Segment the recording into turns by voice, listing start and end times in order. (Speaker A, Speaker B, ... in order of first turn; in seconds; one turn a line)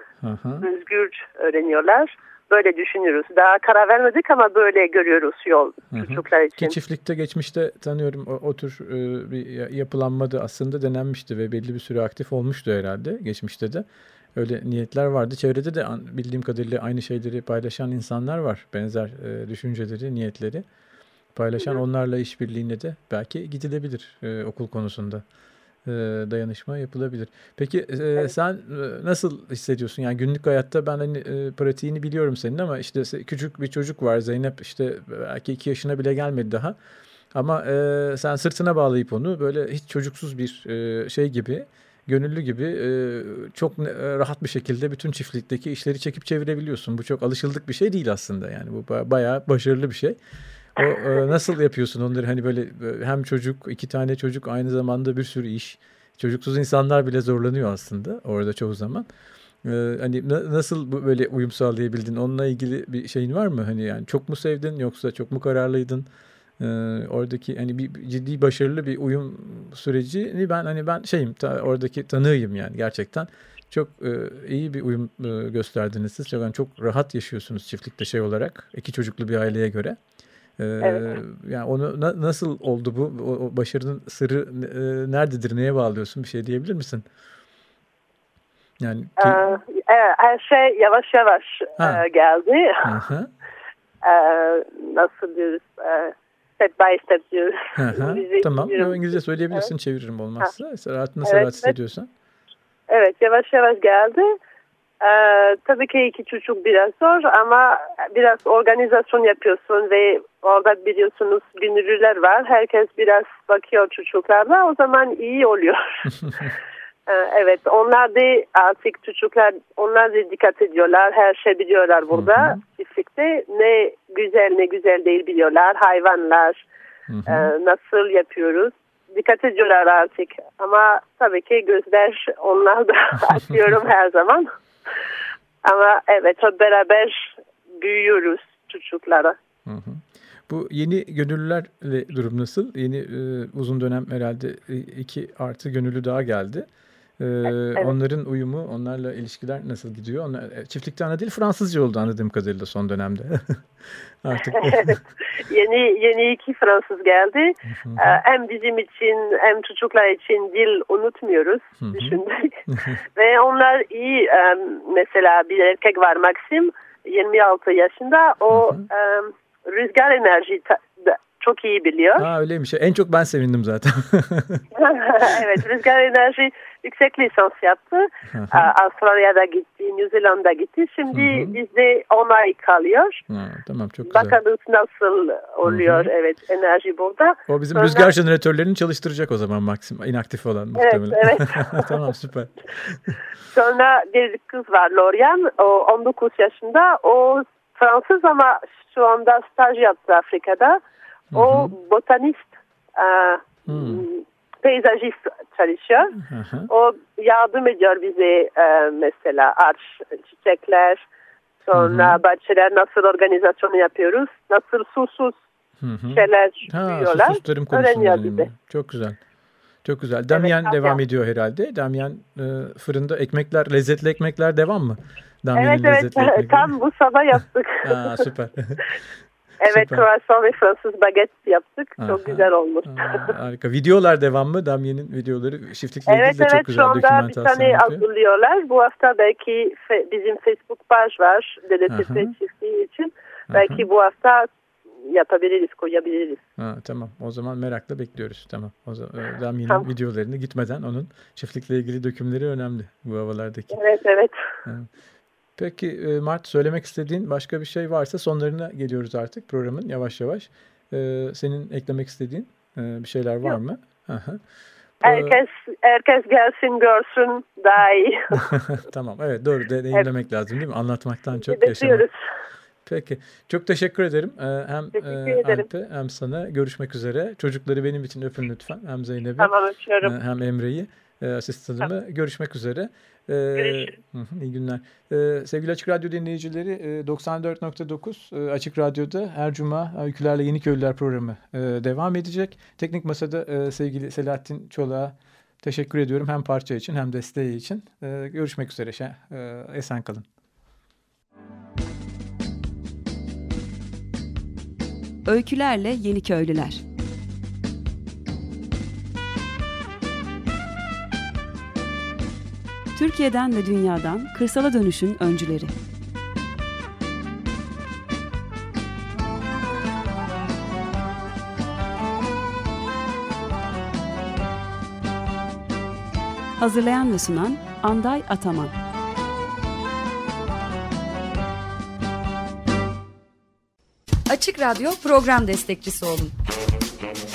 Speaker A: 0.2-0.7
Speaker B: 0.6-6.8
Speaker A: 5.9-20.6
Speaker A: 21.3-25.2
Speaker A: 25.8-36.7
Speaker A: 37.3-50.2
Speaker A: 50.8-59.0
Speaker A: 59.6-66.0
Speaker A: 66.6-80.0
Speaker A: 80.6-87.0
Speaker B: 80.8-81.1
Speaker A: 88.8-89.6
Speaker B: 89.2-93.0
Speaker A: 91.8-92.0
Speaker A: 92.8-93.3
Speaker B: 94.0-99.7
Speaker A: 97.8-102.1
Speaker B: 101.2-101.7
Speaker B: 102.9-104.4
Speaker B: 105.0-116.1
Speaker B: 117.1-126.6
Speaker A: 122.1-122.6
Speaker A: 127.1-127.5
Speaker B: 127.3-134.5
Speaker B: 135.6-139.3
Speaker A: 139.7-146.7
Speaker A: 147.2-155.0
Speaker B: 154.5-162.6
Speaker A: 157.7-158.2
Speaker A: 161.8-162.9
Speaker B: 163.2-172.3
Speaker A: 168.5-168.8
Speaker A: 172.2-174.7
Speaker B: 174.7-183.2
Speaker A: 178.3-178.7
Speaker A: 181.1-181.6
Speaker A: 183.3-184.4
Speaker B: 184.1-188.1
Speaker A: 185.6-186.1
Speaker A: 187.5-193.2
Speaker B: 190.8-192.0
Speaker B: 193.5-200.8
Speaker A: 201.3-201.7
Speaker B: 201.3-206.2
Speaker A: 203.7-204.0
Speaker A: 206.2-206.7
Speaker B: 206.7-211.0
Speaker B: 211.7-215.4
Speaker A: 211.7-212.2
Speaker A: 215.8-219.2
Speaker B: 216.1-218.5
Speaker A: 219.8-226.7
Speaker B: 220.3-221.0
Speaker B: 225.5-228.2
Speaker A: 227.8-228.9
Speaker B: 229.6-233.3
Speaker A: 229.7-230.0
Speaker A: 232.0-238.0
Speaker B: 236.1-244.5
Speaker A: 241.9-242.3
Speaker A: 243.5-243.8
Speaker B: 245.0-246.4
Speaker A: 246.6-253.8
Speaker B: 253.7-254.3
Speaker A: 255.6-264.4
Speaker A: 265.0-265.4
Speaker B: 265.0-268.4
Speaker A: 268.4-272.1
Speaker B: 271.4-272.1
Speaker A: 272.8-300.3
Speaker B: 275.0-275.6
Speaker B: 279.4-280.1
Speaker B: 283.6-283.9
Speaker C: 305.2-306.8
Speaker C: 312.9-315.7
Speaker C: 326.6-328.7
Speaker D: 334.3-336.3